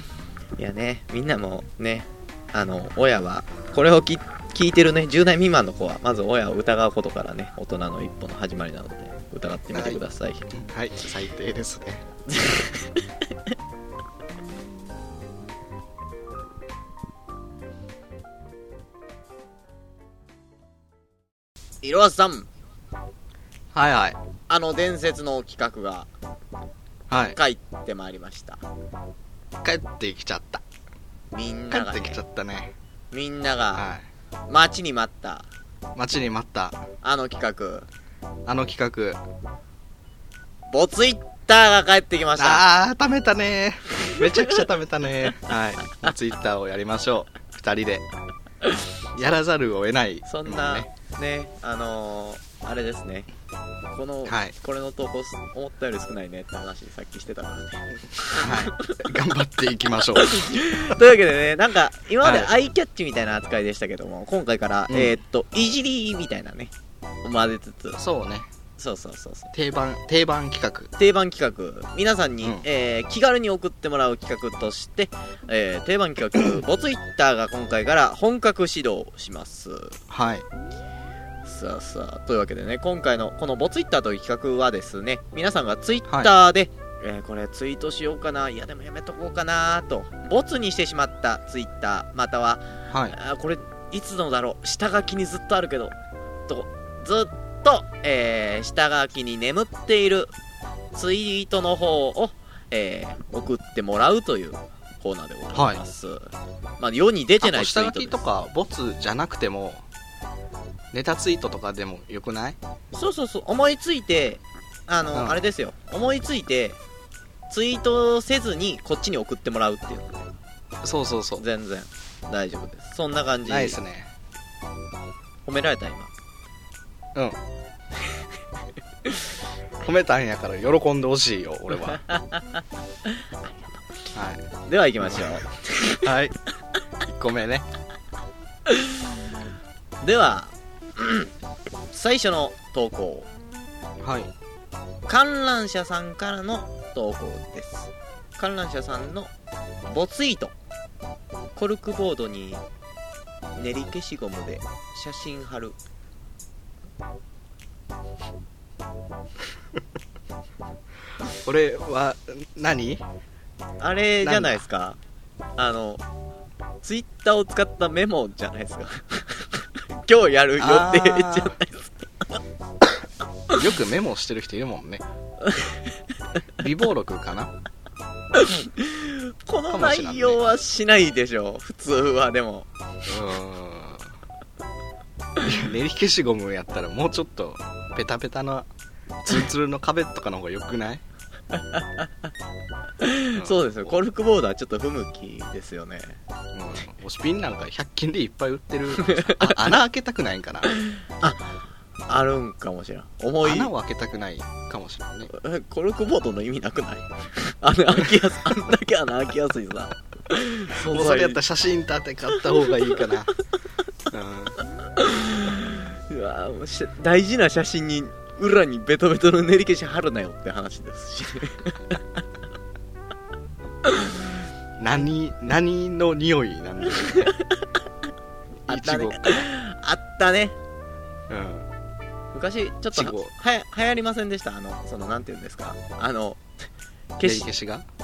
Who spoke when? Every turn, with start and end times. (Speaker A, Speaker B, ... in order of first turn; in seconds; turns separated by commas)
Speaker A: 0.6-10.5, Speaker B: 9.7-12.0, Speaker A: 12.3-13.0, Speaker A: 21.8-22.5, Speaker B: 23.7-24.2, Speaker A: 24.5-26.1, Speaker B: 27.1-27.4, Speaker A: 27.3-28.6, Speaker B: 29.6-30.6, Speaker A: 31.3-32.2, Speaker B: 31.7-32.7, Speaker A: 33.1-33.9, Speaker B: 33.8-34.1, Speaker A: 34.5-35.5, Speaker B: 36.0-36.8, Speaker A: 37.0-37.9, Speaker B: 38.5-39.2, Speaker A: 40.7-42.6, Speaker B: 42.4-48.1, Speaker B: 49.1-50.9, Speaker A: 50.3-53.3, Speaker A: 53.9-59.1, Speaker B: 54.3-54.5, Speaker B: 58.4-60.5, Speaker A: 60.2-66.7, Speaker B: 62.2-62.5, Speaker B: 64.9-65.2, Speaker A: 67.2-68.0, Speaker B: 68.0-68.5, Speaker A: 68.8-69.5, Speaker B: 69.5-70.9, Speaker A: 71.0-80.0, Speaker B: 80.1-80.5, Speaker A: 81.5-96.0, Speaker B: 92.9-93.2, Speaker A: 96.5-100.3, Speaker A: 100.9-108.2, Speaker B: 105.5-105.8, Speaker B: 107.4-109.8, Speaker B: 110.9-112.6, Speaker A: 112.9-116.8, Speaker B: 115.1-115.5, Speaker A: 117.5-120.3, Speaker B: 120.8-121.4, Speaker A: 121.4-123.8, Speaker B: 123.5-124.1, Speaker A: 125.5-126.1, Speaker B: 129.8-132.0, Speaker A: 131.9-133.1, Speaker B: 134.2-134.4, Speaker A: 134.7-136.1, Speaker B: 135.1-135.4, Speaker B: 136.0-136.4, Speaker B: 137.1-137.7, Speaker A: 138.7-139.0, Speaker A: 140.0-141.3, Speaker A: 141.9-143.3, Speaker B: 144.0-144.3, Speaker A: 145.1-149.3, Speaker A: 149.9-150.5, Speaker A: 151.6-152.6, Speaker A: 153.6-155.8, Speaker B: 161.4-163.0, Speaker A: 163.8-165.0, Speaker B: 164.2-164.6, Speaker A: 165.6-166.0, Speaker A: 166.8-172.1, Speaker B: 170.6-171.6, Speaker B: 173.5-175.0, Speaker A: 175.4-175.8, Speaker B: 176.6-177.5, Speaker A: 178.3-182.7, Speaker B: 179.7-180.4, Speaker B: 183.1-184.1, Speaker B: 185.4-188.7, Speaker B: 189.2-191.0, Speaker A: 191.5-192.1, Speaker A: 193.0-196.2, Speaker B: 193.4-193.9, Speaker B: 196.5-200.7, Speaker A: 199.1-199.5, Speaker A: 201.2-203.7, Speaker B: 203.4-205.3, Speaker A: 205.3-211.4, Speaker B: 210.8-213.3, Speaker A: 212.4-212.6, Speaker B: 214.1-214.6, Speaker A: 214.9-222.0, Speaker A: 223.8-224.1, Speaker B: 224.8-227.3, Speaker A: 227.1-227.7, Speaker A: 228.7-230.6, Speaker B: 228.7-229.5, Speaker B: 231.3-231.7, Speaker A: 232.3-236.4, Speaker B: 232.9-233.3, Speaker A: 237.2-237.5, Speaker B: 237.2-237.9